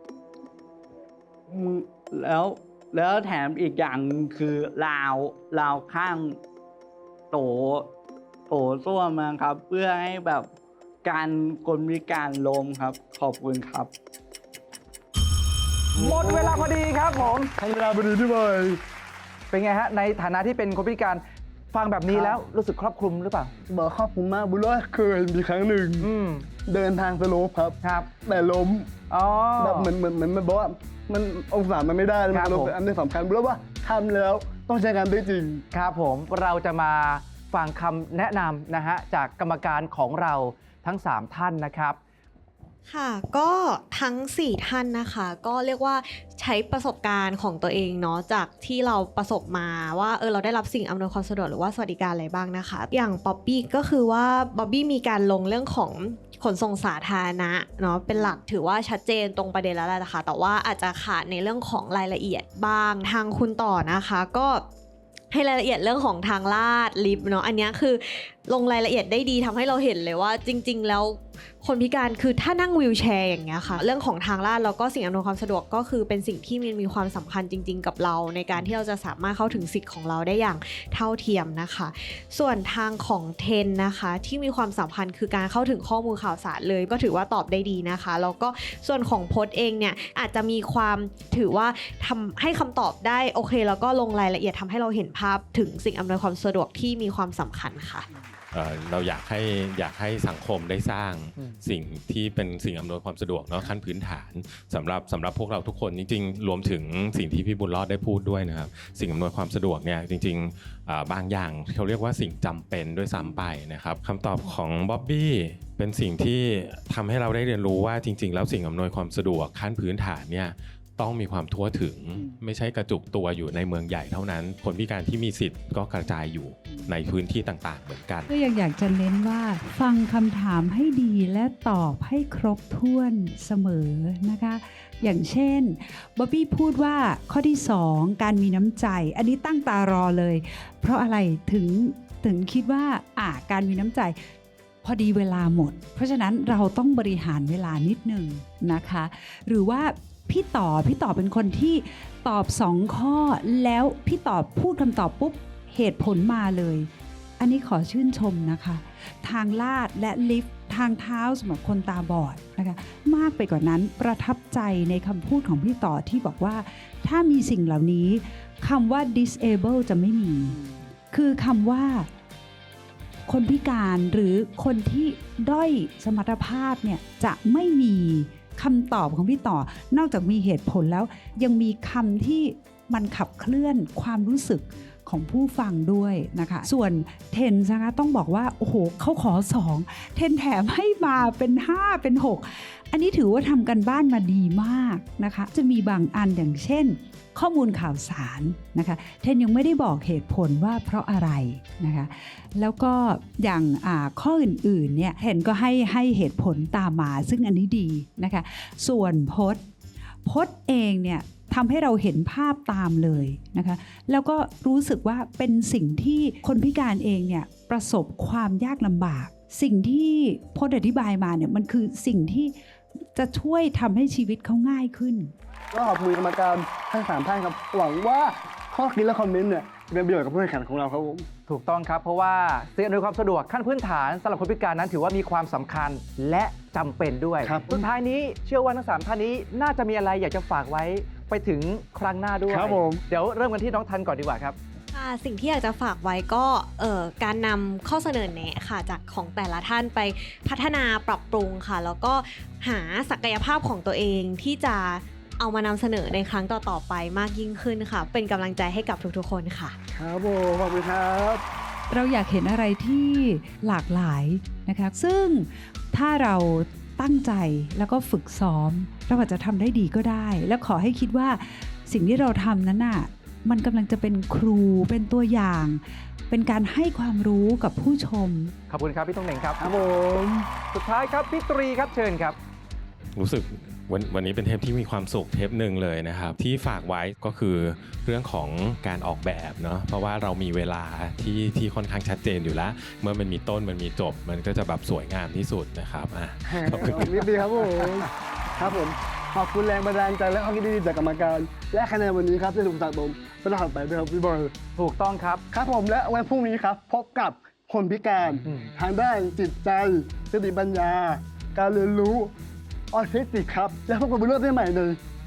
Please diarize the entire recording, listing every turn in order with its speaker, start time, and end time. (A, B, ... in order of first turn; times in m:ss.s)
0:01.5-0:01.8 A
0:01.7-0:06.4 B
0:07.3-0:07.9 B
0:08.5-0:10.5 B
0:11.0-0:13.9 B
0:16.0-0:16.7 A
0:16.0-0:17.5 C
0:17.6-0:18.8 A
0:19.5-0:23.5 C
0:22.1-0:22.4 A
0:23.7-0:26.1 A
0:26.0-0:26.5 C
0:26.7-0:28.9 A
0:27.8-0:28.1 C
0:29.1-0:29.9 C
0:29.6-0:35.6 A
0:32.3-0:32.7 C
0:35.7-0:42.0 C
0:42.9-1:04.6 D
1:05.3-1:38.1 D
1:38.5-2:08.3 E
2:08.3-2:24.3 F
2:24.8-2:50.6 F
2:51.1-2:52.1 F
2:53.3-3:29.6 F
3:30.2-3:42.6 F
3:43.1-3:45.3 F
3:45.7-3:51.3 A
3:51.5-4:04.6 C
3:57.4-3:57.8 A
4:02.5-4:03.0 A
4:04.9-4:19.8 D
4:19.9-4:21.4 A
4:21.9-4:38.5 F
4:38.7-4:39.6 C
4:39.6-4:40.5 A
4:40.7-4:42.4 C
4:43.2-4:57.9 E
4:56.5-5:04.5 A
5:04.8-5:05.4 C
5:05.5-5:12.3 A
5:12.9-5:15.0 A